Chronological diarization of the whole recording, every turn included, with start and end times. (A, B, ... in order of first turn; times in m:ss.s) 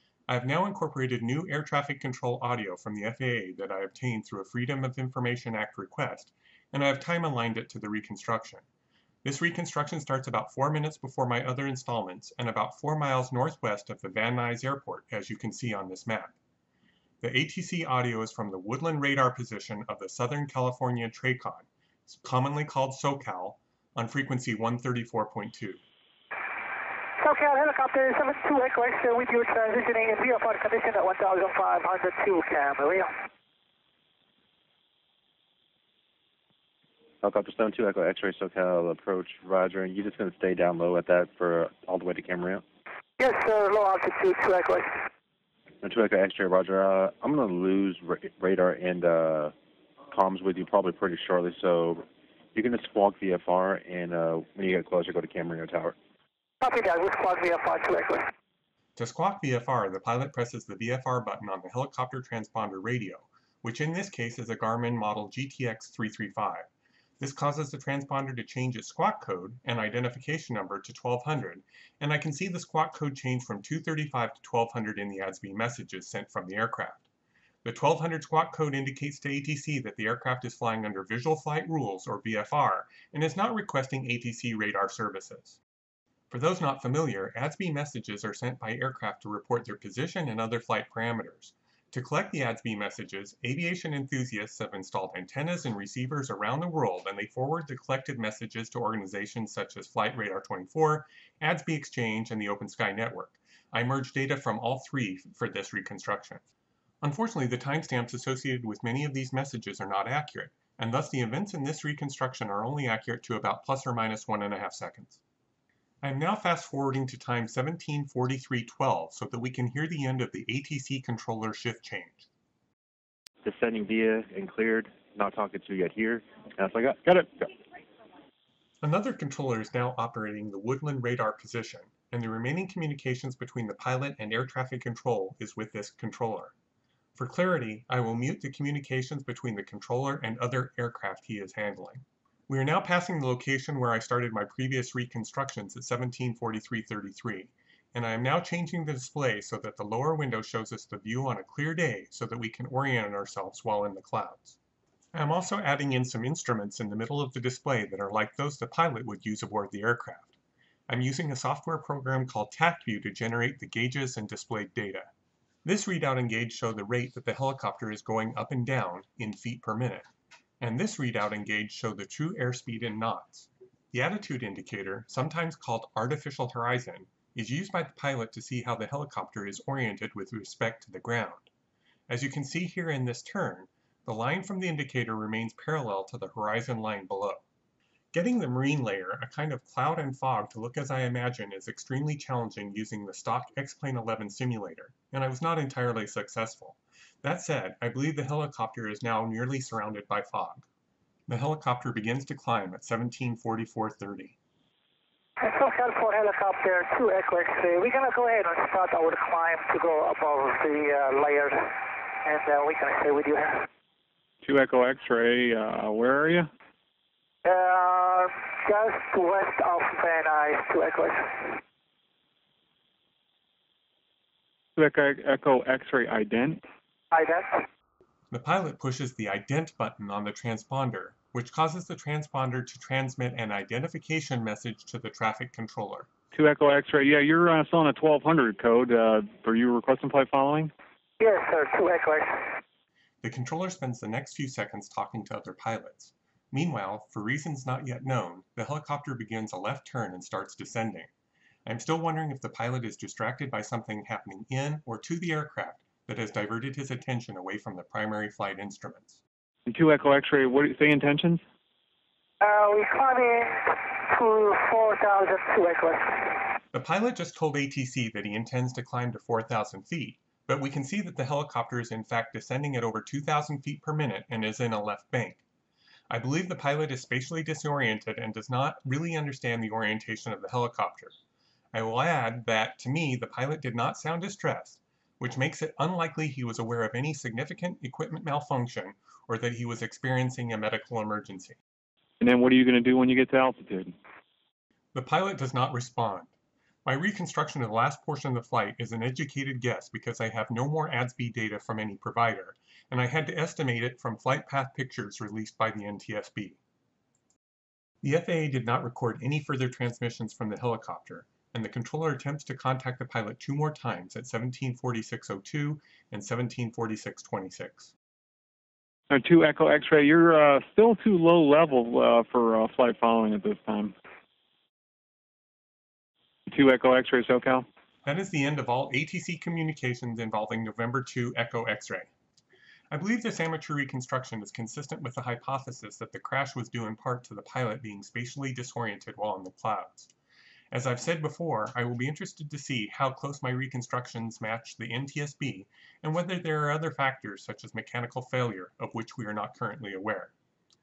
0:00.3-0:08.6 A
0:09.2-0:16.4 A
0:17.2-0:25.8 A
0:27.2-0:33.1 B
0:37.2-0:42.6 C
0:43.2-0:44.9 B
0:45.8-0:49.5 C
0:50.1-0:56.0 C
0:56.6-0:58.3 B
0:59.0-1:06.7 A
1:07.2-1:17.0 A
1:17.6-1:25.6 A
1:26.3-1:46.4 A
1:47.0-1:55.2 A
1:56.0-2:02.3 A
2:03.4-2:07.5 C
2:08.8-2:16.5 A
2:17.2-2:34.6 A
2:35.1-2:40.3 A
2:40.9-2:45.1 A
2:45.6-2:50.1 A
2:50.6-3:01.5 A
3:02.1-3:07.4 A
3:08.1-3:20.7 A
3:21.3-3:24.3 A
3:25.4-3:31.7 B
3:32.2-3:33.7 B
3:34.4-3:36.5 D
3:37.4-3:41.6 B
3:44.8-3:46.6 D
3:47.1-3:47.6 B
3:48.3-3:56.1 A
3:56.3-4:00.7 D
4:01.2-4:02.4 B
4:03.2-4:11.1 A
4:11.7-4:19.2 A
4:19.7-4:21.4 D
4:22.4-4:26.4 B
4:26.7-4:35.4 A
4:36.1-4:41.1 A
4:41.7-4:51.6 A
4:52.2-4:53.9 D
4:54.9-4:56.3 A
4:56.8-5:06.6 A
5:08.0-5:17.9 A
5:19.1-5:23.9 D
5:26.5-5:27.7 D
5:28.0-5:32.1 A
5:32.9-5:40.1 A
5:40.7-5:50.3 A